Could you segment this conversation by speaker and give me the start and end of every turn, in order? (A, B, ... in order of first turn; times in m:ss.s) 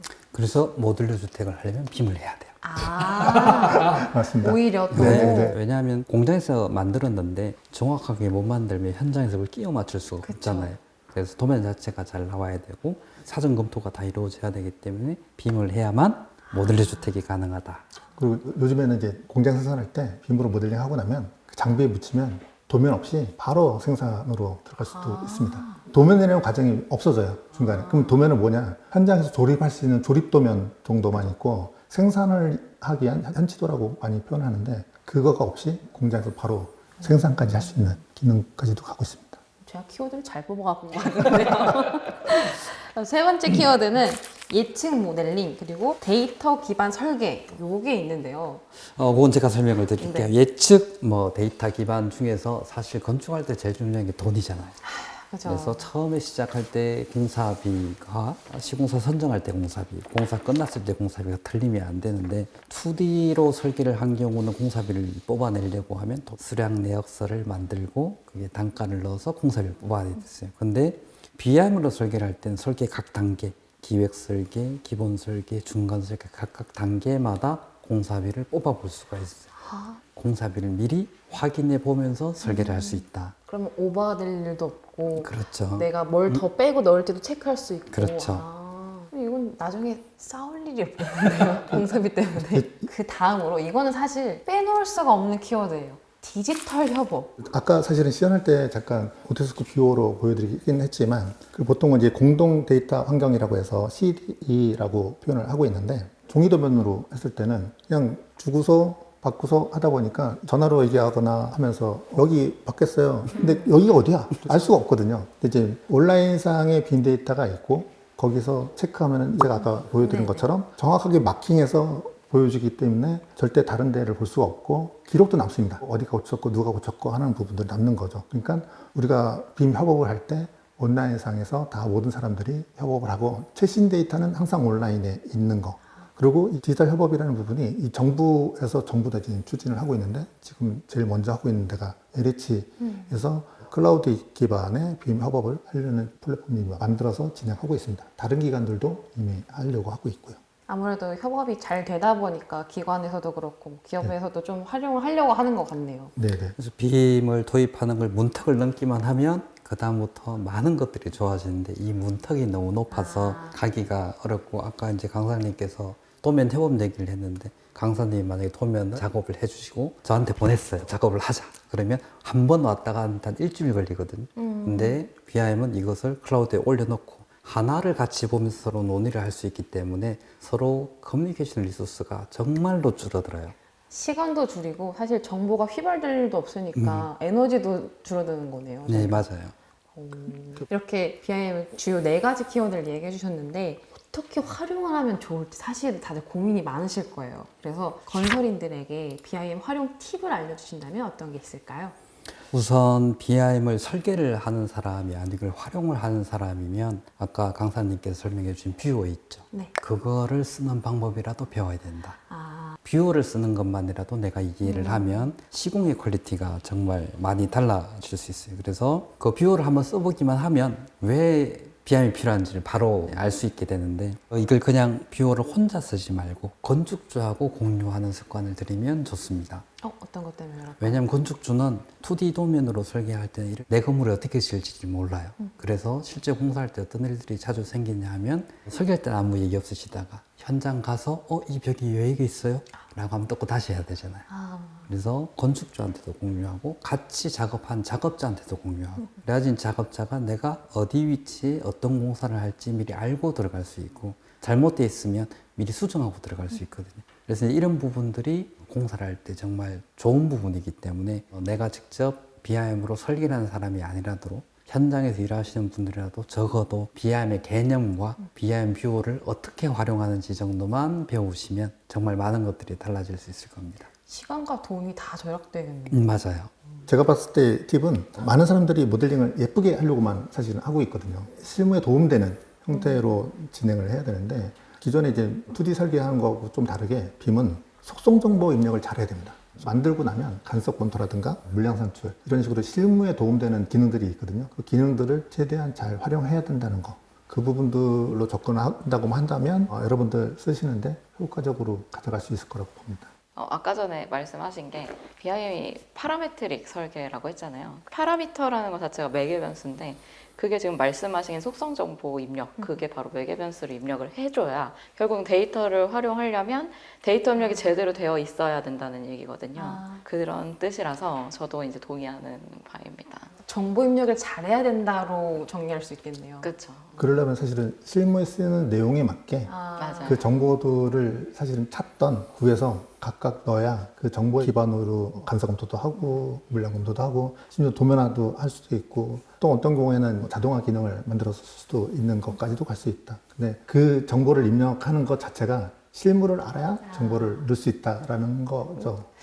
0:00.3-0:03.8 A
0:02.6-0:05.6 B
0:03.2-0:05.6 C
0:04.9-0:17.9 A
0:10.2-0:10.8 B
0:16.6-0:17.0 B
0:18.2-0:39.4 C
0:24.9-0:25.8 B
0:39.6-0:48.6 B
0:48.9-0:54.8 A
0:50.0-0:50.3 B
0:54.8-0:55.9 B
0:55.4-1:19.5 A
1:19.6-1:20.0 B
1:20.2-1:23.4 A
1:22.4-1:37.4 B
1:25.2-1:26.4 A
1:27.9-1:28.5 A
1:32.4-1:32.9 C
1:37.4-2:30.4 C
2:00.0-2:00.5 B
2:22.8-2:23.1 B
2:30.7-2:36.1 B
2:36.2-2:36.6 C
2:36.6-3:03.6 A
2:42.9-2:43.6 B
2:54.4-2:55.0 B
3:03.9-3:09.2 B
3:06.8-3:07.1 A
3:08.9-3:09.6 A
3:10.0-3:22.0 B
3:22.5-3:32.2 A
3:32.3-3:32.8 B
3:32.8-3:49.7 A
3:34.6-3:35.3 B
3:49.8-3:51.0 B
3:50.8-4:04.3 A
4:04.3-4:04.9 B
4:04.9-4:33.9 A
4:34.1-4:36.2 B
4:35.9-4:36.5 A
4:36.9-5:03.1 C
5:03.4-5:23.3 D
5:19.6-5:20.0 B
5:23.4-5:26.5 B
5:26.4-5:27.0 D
5:27.0-5:29.5 C
5:29.5-5:30.2 B
5:29.8-5:30.2 D
5:30.0-5:49.1 C
5:47.0-5:47.3 B